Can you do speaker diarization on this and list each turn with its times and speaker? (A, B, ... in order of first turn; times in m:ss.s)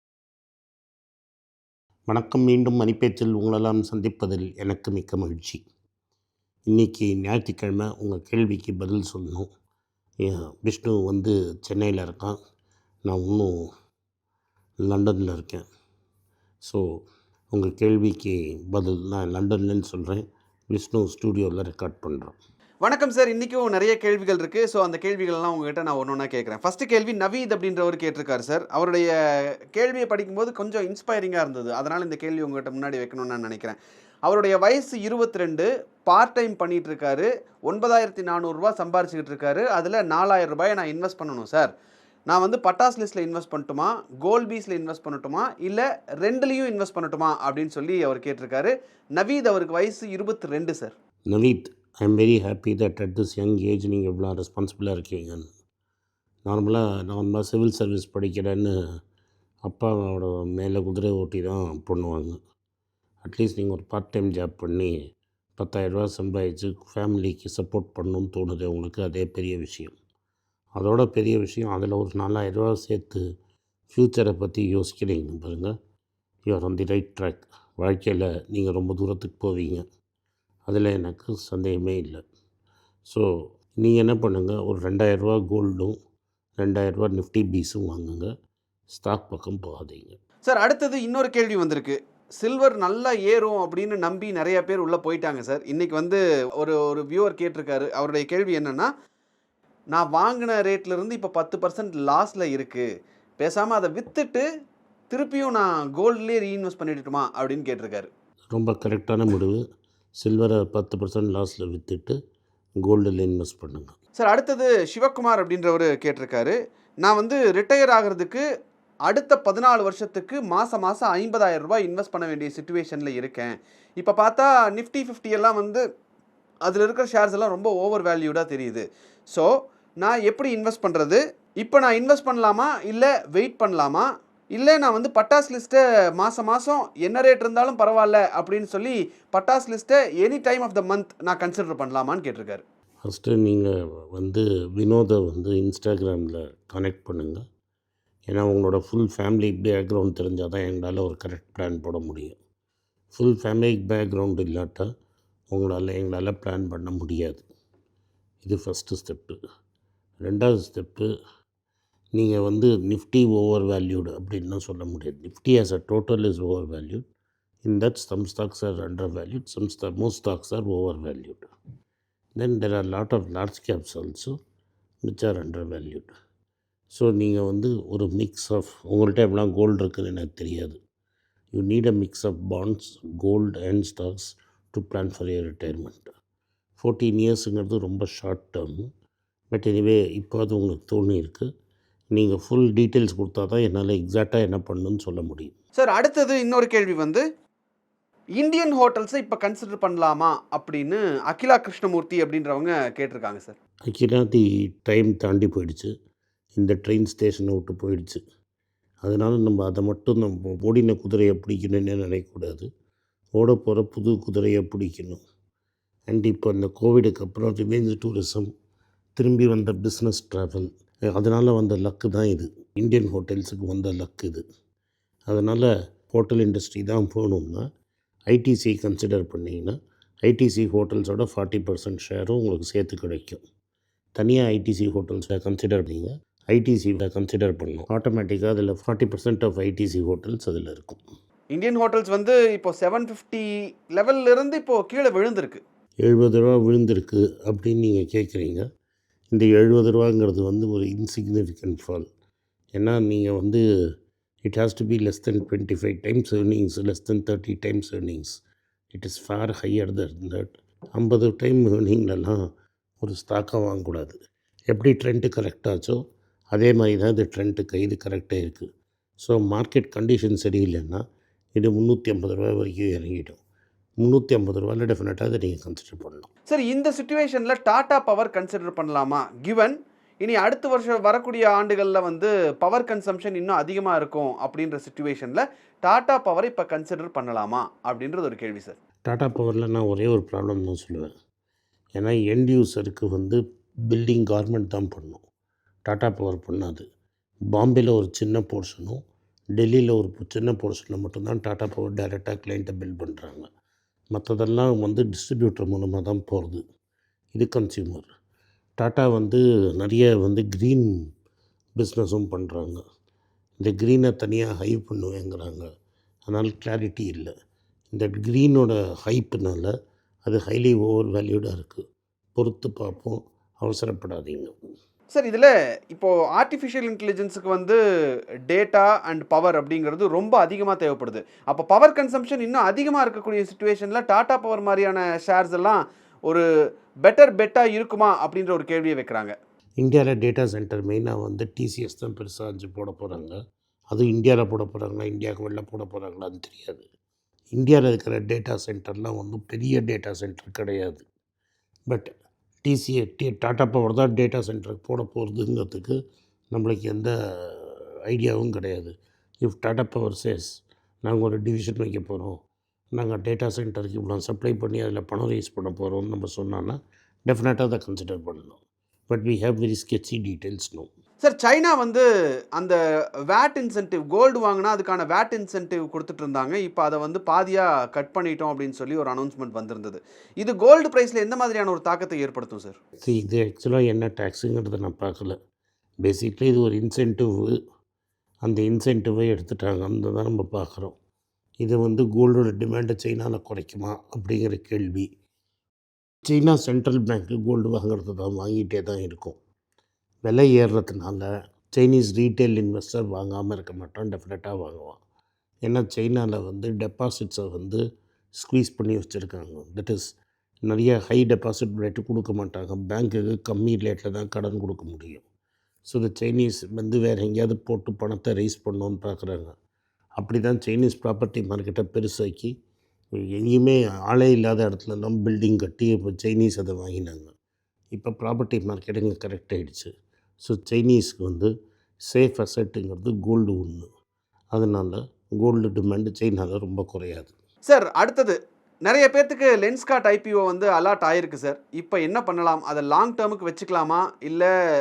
0:02.1-0:05.6 A
0:06.7-0:09.5 A
0:10.2-0:12.4 A
0:13.1-0:13.5 A
0:14.8-0:15.6 A
0:17.5-0:22.4 A
0:22.8-0:29.1 B
0:29.8-0:41.7 B
0:42.3-0:50.9 B
0:51.3-0:55.5 A
0:56.5-0:58.7 A
0:59.7-1:02.4 A
1:03.2-1:04.9 A
1:05.6-1:10.0 A
1:10.8-1:13.2 A
1:13.9-1:15.7 A
1:16.5-1:19.8 A
1:20.7-1:22.2 A
1:23.8-1:25.9 A
1:26.6-1:28.3 A
1:28.9-1:30.2 A
1:30.4-1:38.9 B
1:39.9-1:42.9 B
1:43.4-1:44.4 B
1:45.1-1:48.1 B
1:48.5-1:49.6 A
1:50.2-1:52.2 A
1:52.8-1:54.0 A
1:54.2-1:58.4 B
1:59.1-2:05.8 B
2:06.7-2:22.6 B
2:23.0-2:27.4 A
2:28.3-2:32.4 A
2:33.1-2:34.9 A
2:35.5-2:37.5 A
2:38.4-2:39.4 A
2:40.2-2:41.1 A
2:42.2-2:47.0 A
2:47.6-2:51.5 A
2:52.4-2:54.3 A
2:55.0-2:56.1 A
2:56.9-3:00.8 A
3:01.5-3:06.1 A
3:06.8-3:08.9 A
3:09.5-3:11.5 A
3:12.1-3:15.5 A
3:15.8-3:17.2 B
3:18.4-3:23.6 B
3:23.9-3:25.9 A
3:26.6-3:28.2 A
3:29.0-3:32.7 A
3:33.4-3:35.2 A
3:36.1-3:38.5 A
3:39.2-3:44.4 A
3:45.3-3:47.6 A
3:48.3-3:53.4 A
3:54.2-4:01.0 A
4:01.5-4:05.6 B
4:06.0-4:08.7 A
4:09.3-4:12.1 A
4:12.8-4:13.6 A
4:14.5-4:18.4 A
4:18.9-4:22.4 A
4:23.0-4:24.2 A
4:24.7-4:26.0 A
4:26.5-4:28.7 A
4:29.2-4:31.0 A
4:31.6-4:33.4 A
4:34.0-4:36.3 A
4:36.5-4:48.8 B
4:49.1-4:51.1 A
4:52.0-4:55.2 A
4:55.9-4:56.8 A
4:57.5-4:59.0 A
4:59.6-5:03.5 A
5:04.1-5:06.6 A
5:07.3-5:08.1 A
5:08.8-5:10.9 A
5:11.8-5:12.8 A
5:13.6-5:15.7 A
5:16.3-5:17.3 A
5:17.9-5:19.7 A
5:20.2-5:21.8 A
5:22.4-5:24.5 A
5:25.1-5:27.8 B
5:28.5-5:36.4 B
5:37.0-5:39.3 B
5:39.8-5:43.4 A
5:43.9-5:46.9 A
5:47.6-5:51.1 A
5:52.6-5:56.0 A
5:56.5-6:00.5 A
6:01.0-6:02.4 A
6:03.0-6:10.9 A
6:11.2-6:12.0 B
6:13.3-6:22.8 B
6:23.0-6:25.4 A
6:26.0-6:27.6 A
6:28.4-6:30.9 A
6:31.6-6:35.1 A
6:36.3-6:39.4 A
6:40.2-6:45.0 A
6:45.7-6:47.8 A
6:48.4-6:50.1 A
6:50.7-6:55.2 A
6:55.9-6:59.5 A
7:00.2-7:02.5 A
7:03.2-7:07.3 A
7:07.9-7:09.9 A
7:10.4-7:11.5 A
7:12.1-7:13.9 A
7:14.5-7:17.3 A
7:17.7-7:24.5 B